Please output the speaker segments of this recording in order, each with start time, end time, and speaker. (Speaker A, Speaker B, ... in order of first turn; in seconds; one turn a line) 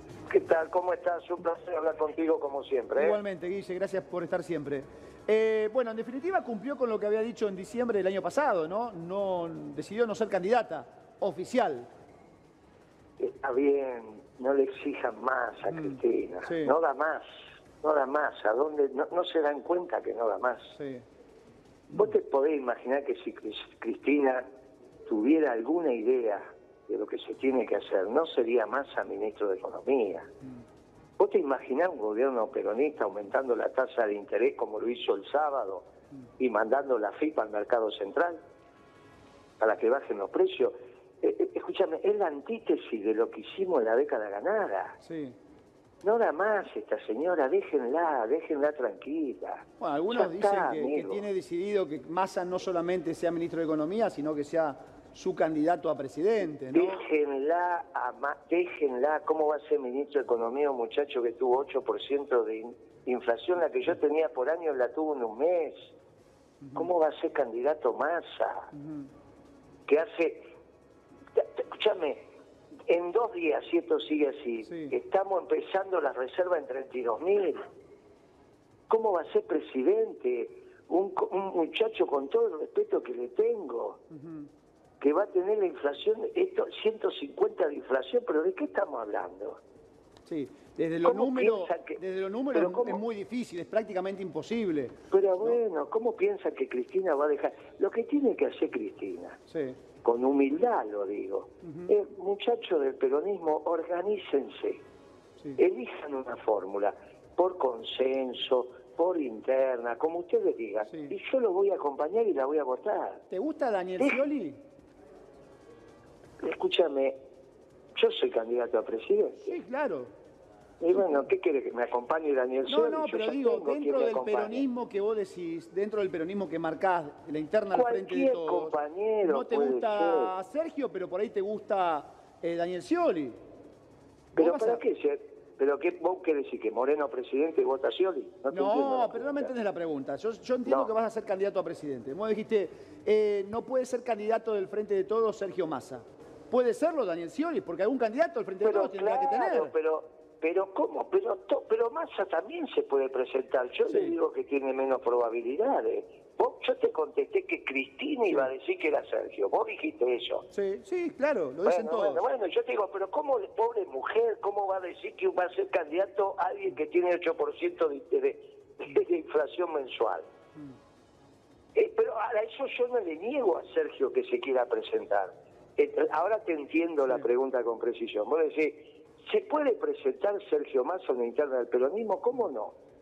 Speaker A: 0.3-3.2
Speaker B: 3.0-11.9
Speaker A: 13.2-17.3
Speaker B: 15.7-16.7
Speaker A: 17.8-20.8
Speaker B: 20.8-21.0
Speaker A: 21.9-24.4
Speaker A: 25.1-30.3
Speaker A: 31.2-35.9
Speaker A: 36.4-38.4
Speaker A: 39.6-45.0
Speaker B: 45.0-45.4
Speaker A: 46.0-51.2
Speaker B: 49.8-57.0
Speaker A: 56.7-65.9
Speaker B: 66.6-66.9
Speaker A: 66.8-68.7
Speaker B: 68.7-69.1
Speaker A: 69.9-70.4
Speaker A: 71.4-72.3
Speaker A: 72.9-77.7
Speaker B: 74.6-75.0
Speaker A: 78.9-84.0
Speaker B: 84.1-84.5
Speaker A: 85.0-89.6
Speaker B: 90.2-95.6
Speaker A: 91.0-92.0
Speaker A: 92.5-93.0
Speaker A: 95.1-99.4
Speaker B: 99.5-99.8
Speaker A: 100.0-104.8
Speaker B: 101.6-101.9
Speaker A: 105.6-113.2
Speaker B: 110.9-111.1
Speaker B: 113.3-114.6
Speaker A: 116.4-117.2
Speaker A: 118.0-119.5
Speaker B: 119.4-120.1
Speaker A: 120.8-124.7
Speaker B: 122.7-133.3
Speaker A: 127.7-130.3
Speaker B: 134.3-134.8
Speaker A: 134.3-139.5
Speaker B: 138.5-149.7
Speaker A: 140.7-140.9
Speaker A: 148.6-160.4
Speaker B: 153.9-154.2
Speaker B: 160.5-162.2
Speaker A: 161.6-170.3
Speaker A: 171.7-182.8